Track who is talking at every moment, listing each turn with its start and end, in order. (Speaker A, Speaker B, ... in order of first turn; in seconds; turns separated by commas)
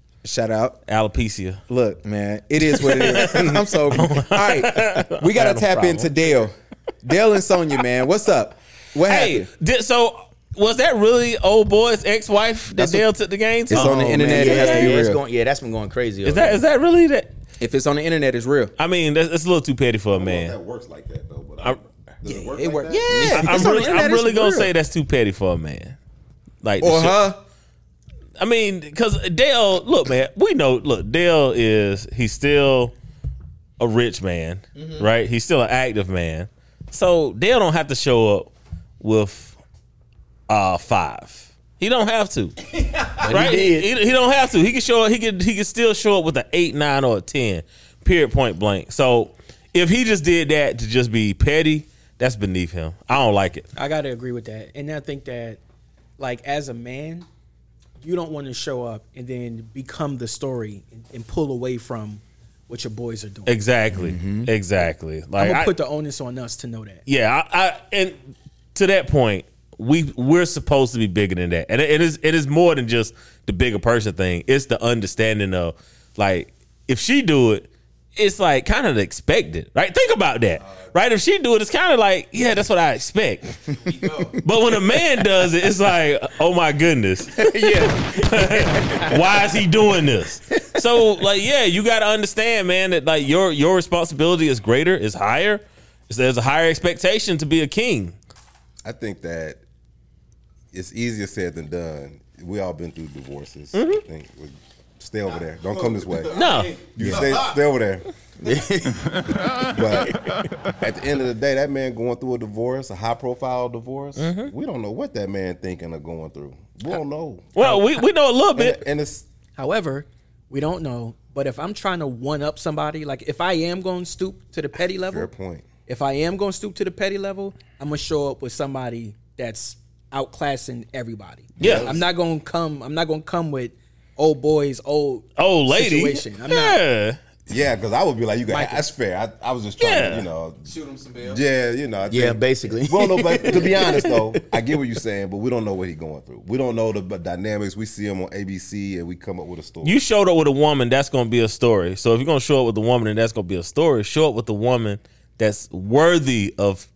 Speaker A: 0.2-0.8, Speaker B: 0.9-1.6, Speaker A: 1.7-9.5, Speaker B: 2.7-6.2, Speaker B: 9.1-15.0, Speaker A: 12.7-13.1, Speaker A: 13.7-15.2, Speaker C: 13.7-16.6, Speaker B: 16.2-17.3, Speaker A: 17.6-18.7, Speaker B: 18.8-20.6, Speaker D: 20.1-23.3, Speaker A: 22.3-24.7, Speaker B: 23.1-26.0, Speaker B: 26.6-27.3, Speaker A: 26.8-27.4, Speaker B: 28.4-32.9, Speaker B: 33.8-39.6, Speaker A: 34.8-35.0, Speaker B: 40.5-42.6, Speaker A: 42.8-43.1, Speaker B: 43.2-53.7, Speaker C: 43.2-43.9, Speaker E: 53.8-55.6, Speaker E: 56.2-57.3, Speaker E: 58.0-63.6, Speaker B: 63.5-65.7, Speaker C: 63.9-64.5, Speaker E: 65.4-67.0, Speaker B: 67.1-98.2, Speaker C: 87.3-89.4, Speaker D: 98.8-99.6, Speaker D: 100.7-108.1, Speaker B: 103.7-104.0, Speaker B: 106.3-106.8, Speaker A: 106.4-107.3, Speaker C: 108.4-109.4, Speaker D: 109.7-110.3, Speaker D: 110.8-117.6, Speaker B: 114.2-114.5, Speaker B: 117.6-118.8, Speaker E: 117.6-118.0, Speaker D: 118.5-119.3, Speaker E: 119.6-125.3, Speaker D: 125.0-125.7, Speaker E: 125.9-136.8, Speaker B: 131.6-132.0, Speaker D: 131.6-132.1, Speaker B: 135.4-137.2, Speaker D: 137.5-150.0, Speaker E: 138.5-138.8, Speaker B: 139.8-140.3, Speaker A: 140.7-141.4, Speaker C: 142.1-144.0, Speaker B: 149.8-156.9